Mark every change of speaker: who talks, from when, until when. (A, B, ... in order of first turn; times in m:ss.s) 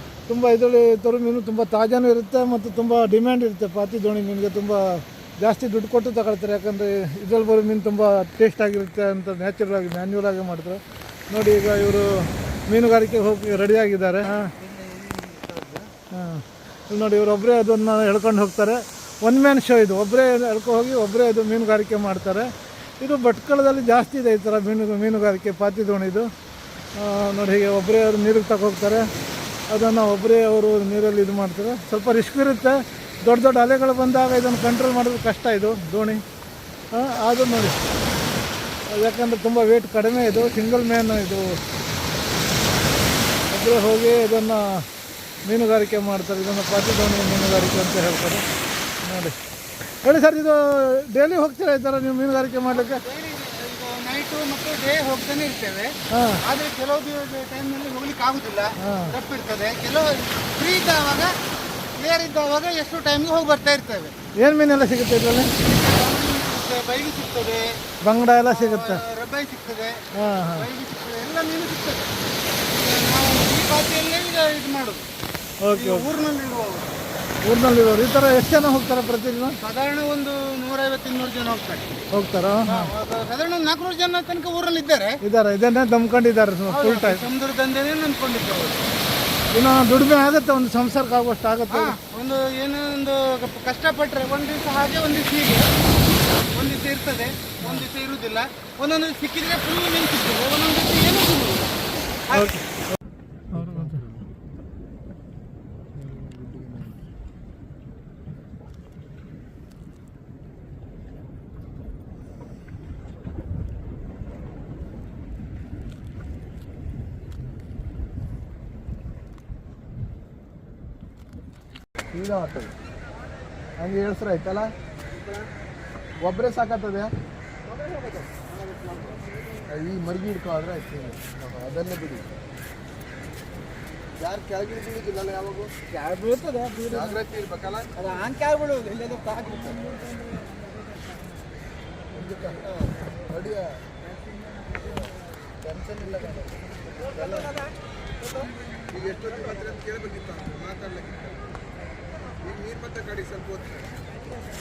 0:00.3-0:14.5 A
0:14.2-0:15.9 B
0:16.1-0:26.3 A
0:27.0-0:29.1 A
0:29.7-0:36.2 A
0:36.9-0:37.9 A
0:38.9-0:41.6 A
0:43.5-0:44.9 A
0:45.4-0:48.5 A
0:49.0-0:53.0 A
0:52.7-1:01.4 B
0:56.1-0:56.4 A
0:58.8-0:59.1 A
1:02.0-1:04.1 B
1:04.4-1:05.6 A
1:05.7-1:07.8 B
1:08.0-1:09.0 A
1:08.4-1:12.1 B
1:10.2-1:10.7 A
1:12.7-1:15.1 B
1:15.6-1:16.1 A
1:15.7-1:17.0 B
1:17.4-1:19.6 A
1:19.6-1:22.0 B
1:22.1-1:22.9 A
1:22.7-1:25.2 B
1:25.2-1:27.2 A
1:26.7-1:28.9 B
1:29.5-1:32.0 A
1:31.7-1:35.7 B
1:36.5-1:41.7 B
1:42.3-1:42.6 B
1:42.3-1:42.6 A
1:43.5-1:44.1 A
1:43.6-1:44.2 C
1:46.0-1:47.0 C
2:02.1-2:02.7 C
2:03.8-2:04.7 C
2:06.2-2:07.2 C
2:07.9-2:09.2 B
2:09.7-2:12.3 C
2:14.2-2:15.8 C
2:16.0-2:17.1 A
2:16.9-2:17.9 C
2:18.0-2:19.7 B
2:22.1-2:23.8 C
2:25.7-2:26.3 B
2:27.2-2:27.5 B
2:29.1-2:31.0 C
2:32.5-2:33.7 C